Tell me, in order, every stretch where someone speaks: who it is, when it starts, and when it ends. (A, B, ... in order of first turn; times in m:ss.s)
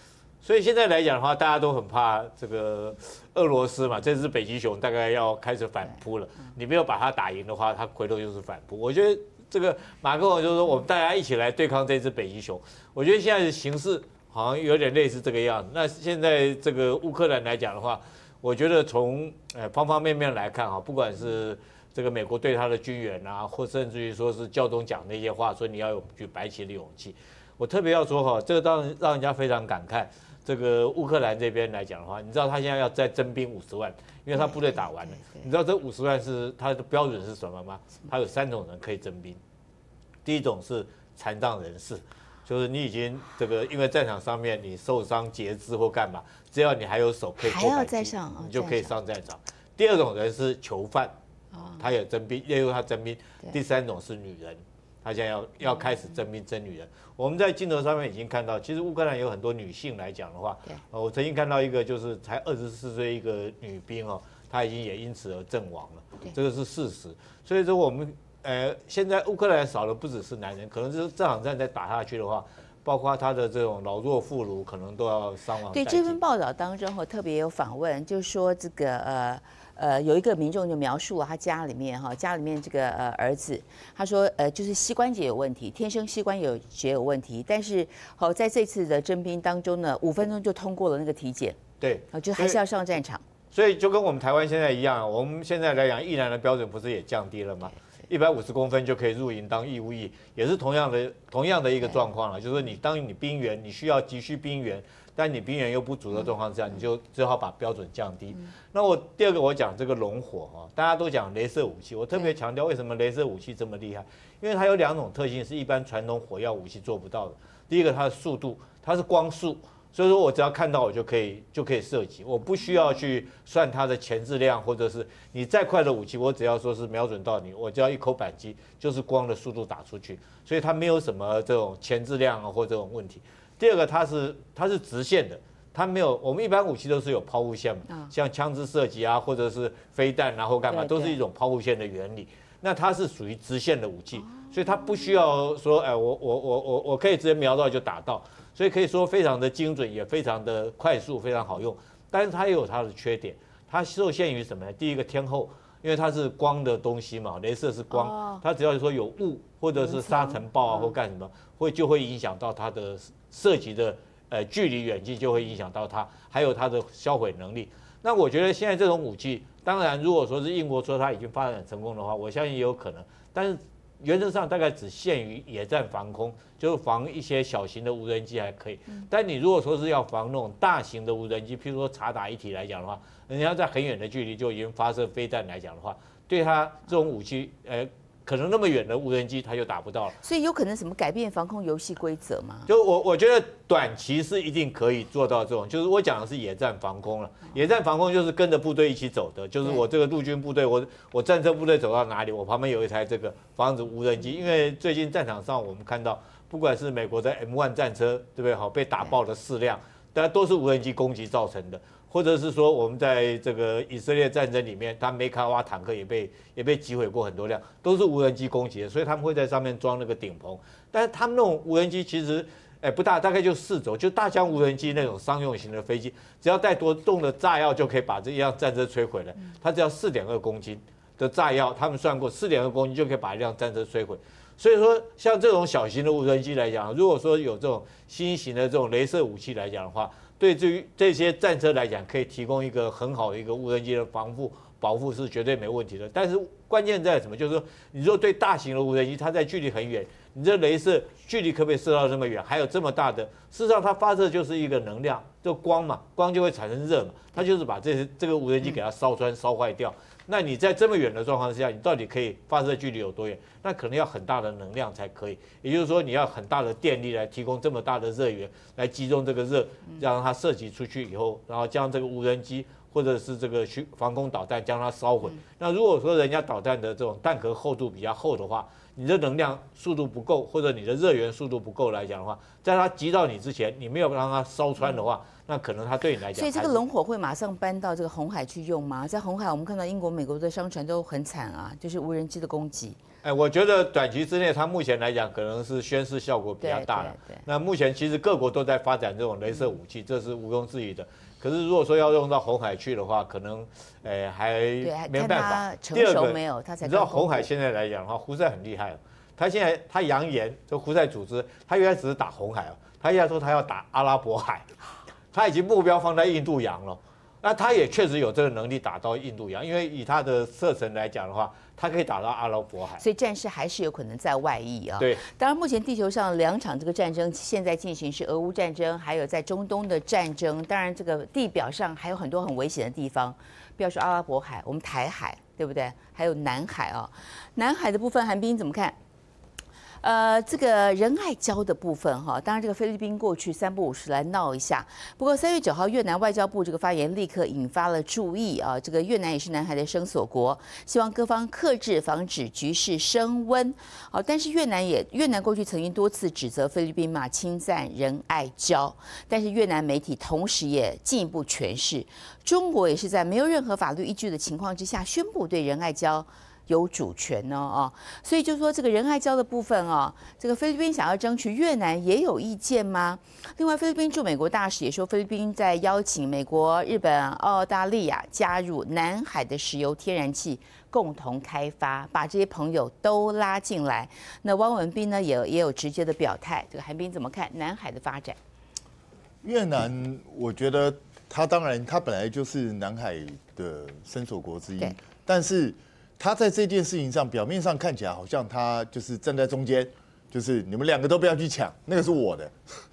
0:00.4-0:39.4 A
0:40.2-0:51.1 A
0:47.4-0:48.9 B
0:51.7-1:16.2 A
1:15.7-1:31.6 B
1:31.8-1:32.6 A
1:32.1-1:33.2 B
1:33.5-3:10.2 A
2:20.7-2:21.2 B
2:37.9-2:38.4 B
2:39.8-2:40.9 B
3:10.2-3:12.7 B
3:12.7-4:46.8 A
4:46.3-4:53.0 B
4:53.2-5:14.7 A
4:56.6-4:57.4 B
5:04.8-5:07.5 B
5:15.3-5:23.0 A
5:23.0-5:39.0 B
5:40.0-6:28.4 B
6:29.4-6:42.6 C